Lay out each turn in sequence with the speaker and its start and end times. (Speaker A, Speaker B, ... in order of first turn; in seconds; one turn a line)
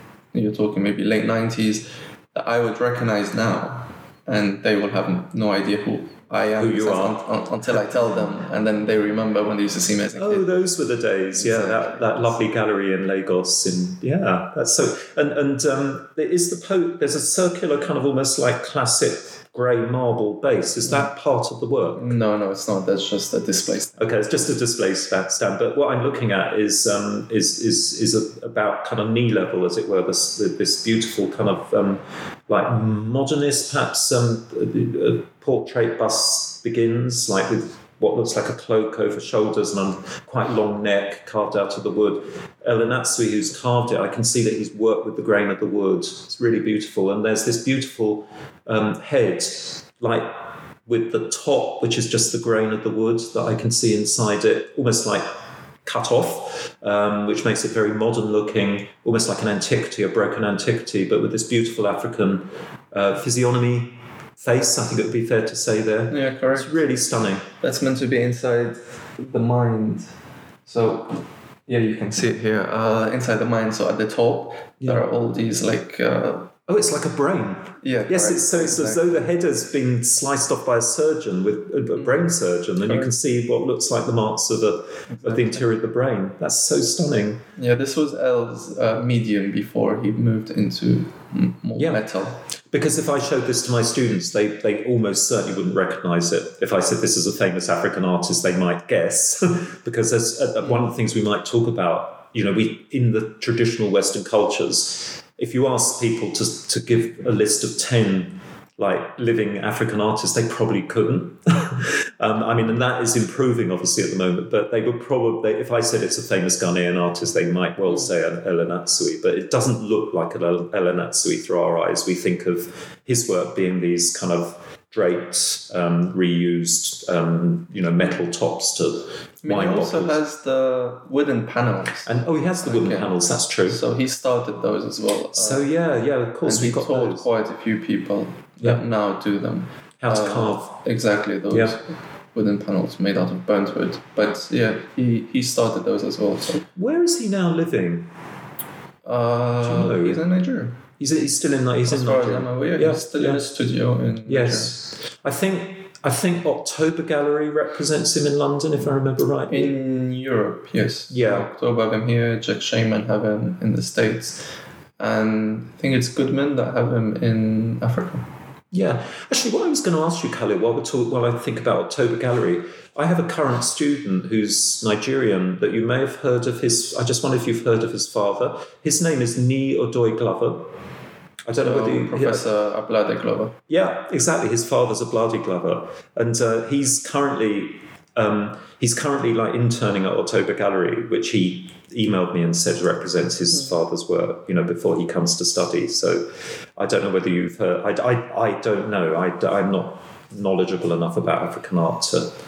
Speaker A: 0.3-10.5
Speaker B: 6.6-7.2
Speaker B: 10.2-22.1
Speaker A: 11.3-12.4
Speaker A: 22.0-24.0
Speaker B: 24.0-55.3
Speaker B: 55.9-67.5
Speaker A: 66.1-66.8
Speaker A: 67.6-70.1
Speaker A: 70.7-76.6
Speaker B: 76.7-87.4
Speaker A: 77.8-79.3
Speaker A: 82.8-83.1
Speaker A: 85.1-85.6
Speaker A: 87.6-92.4
Speaker B: 91.8-92.0
Speaker B: 92.7-130.2
Speaker A: 129.4-132.1
Speaker B: 132.1-133.8
Speaker A: 132.6-135.7
Speaker B: 135.3-137.3
Speaker A: 136.4-146.7
Speaker B: 140.0-140.8
Speaker B: 141.5-141.8
Speaker B: 146.8-148.1
Speaker A: 149.1-150.8
Speaker B: 149.6-150.2
Speaker B: 151.0-153.4
Speaker A: 151.8-154.8
Speaker B: 154.3-159.7
Speaker A: 159.5-168.3
Speaker B: 161.1-161.5
Speaker B: 168.7-180.7
Speaker B: 181.5-182.5
Speaker A: 181.5-183.6
Speaker B: 183.7-202.3